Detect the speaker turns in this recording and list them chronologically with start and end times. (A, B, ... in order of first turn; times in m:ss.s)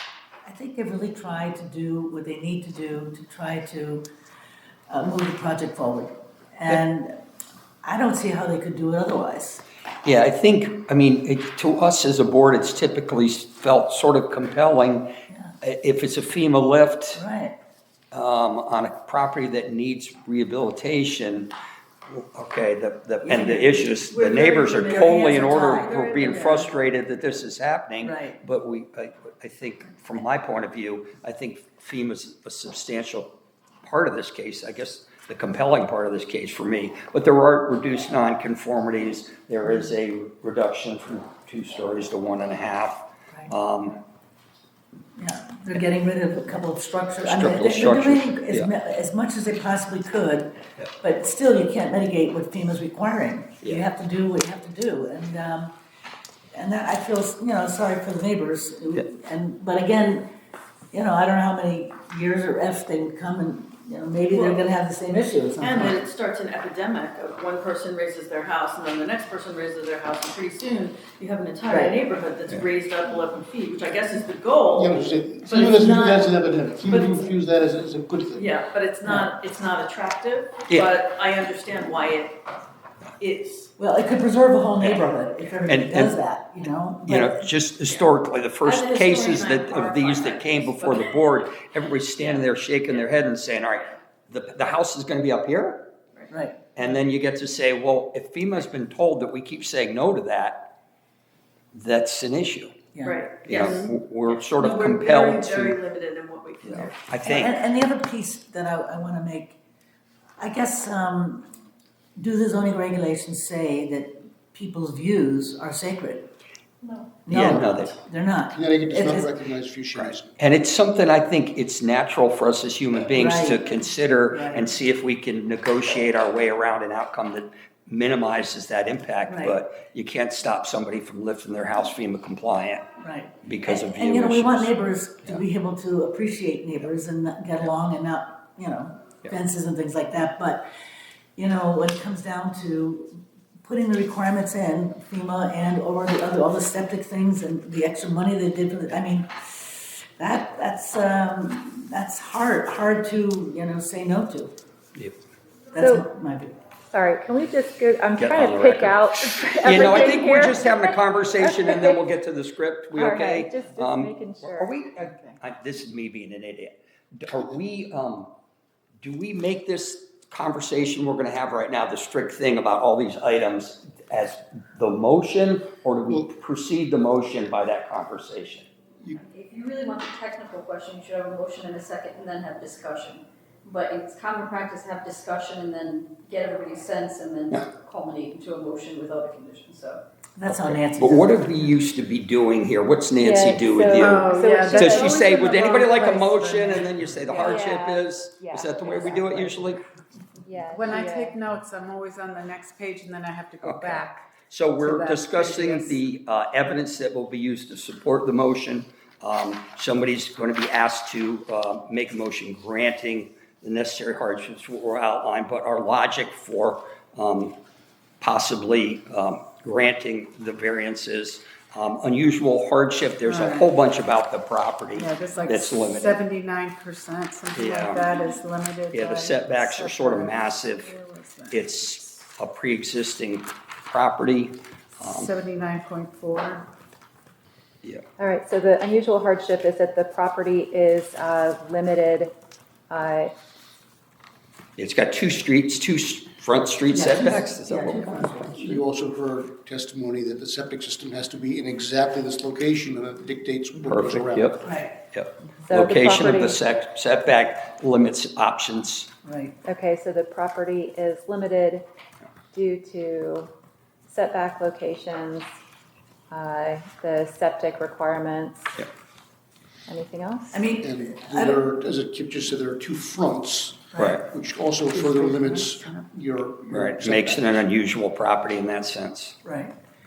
0:00.4-0:04.0 A
0:04.9-0:07.2 A
0:07.8-0:09.6 A
0:10.0-0:17.2 B
0:15.3-0:15.6 A
0:17.2-0:17.6 A
0:18.1-0:21.5 B
0:22.1-0:33.3 B
0:23.2-0:23.9 A
0:23.9-0:26.7 C
0:24.8-0:26.0 A
0:28.0-0:28.4 A
0:33.8-0:44.0 B
0:45.2-0:55.7 A
0:47.2-0:48.7 B
0:53.6-0:53.9 B
0:56.5-1:00.3 A
1:00.9-1:06.0 A
1:04.3-1:04.6 C
1:05.6-1:17.3 C
1:11.7-1:11.9 A
1:14.7-1:18.5 D
1:18.3-1:22.4 C
1:23.2-1:23.7 C
1:23.8-1:27.5 A
1:25.6-1:26.2 B
1:27.0-1:35.8 B
1:28.6-1:31.4 C
1:32.2-1:32.5 C
1:36.3-1:36.6 A
1:36.8-1:40.7 B
1:41.7-1:42.8 B
1:43.0-1:47.0 C
1:43.4-1:45.8 B
1:46.6-1:47.6 B
1:47.2-1:49.6 A
1:50.4-1:51.5 A
1:52.2-1:56.3 A
1:57.2-1:59.3 A
1:57.3-1:57.9 B
1:57.4-1:57.7 D
1:58.5-2:00.3 D
2:00.0-2:12.9 B
2:03.1-2:03.6 A
2:04.3-2:04.7 A
2:09.3-2:09.6 A
2:13.0-2:20.6 A
2:13.4-2:14.7 B
2:21.4-2:34.5 A
2:35.7-2:36.6 A
2:35.8-2:36.1 E
2:36.9-2:42.1 E
2:38.2-2:48.3 B
2:42.9-2:44.8 E
2:49.0-2:58.7 B
2:59.2-3:10.0 F
3:10.4-3:11.7 A
3:10.5-3:19.8 B
3:13.2-3:15.2 E
3:14.0-3:17.6 G
3:17.5-3:19.7 E
3:20.4-3:21.4 E
3:20.7-3:26.0 G
3:23.6-3:37.6 B
3:38.2-3:46.2 B
3:43.2-3:43.7 G
3:44.9-3:51.6 G
3:47.5-3:48.2 B
3:48.9-3:50.9 B
3:51.5-3:55.3 B
3:55.0-3:56.7 G
3:58.2-4:02.3 E
4:02.9-4:03.4 E
4:04.8-4:08.6 B
4:06.9-4:08.8 A
4:08.6-4:14.7 D
4:13.8-4:19.1 B
4:14.6-4:14.9 A
4:15.6-4:16.6 E
4:19.2-4:19.6 A
4:19.6-4:21.9 E
4:22.5-4:23.5 E
4:24.1-4:25.6 E
4:26.3-4:28.8 E
4:29.9-4:30.6 E
4:30.5-4:31.6 A
4:30.8-4:37.6 D
4:34.0-4:34.2 B
4:35.0-4:36.0 G
4:36.7-4:39.4 B
4:39.4-4:39.8 A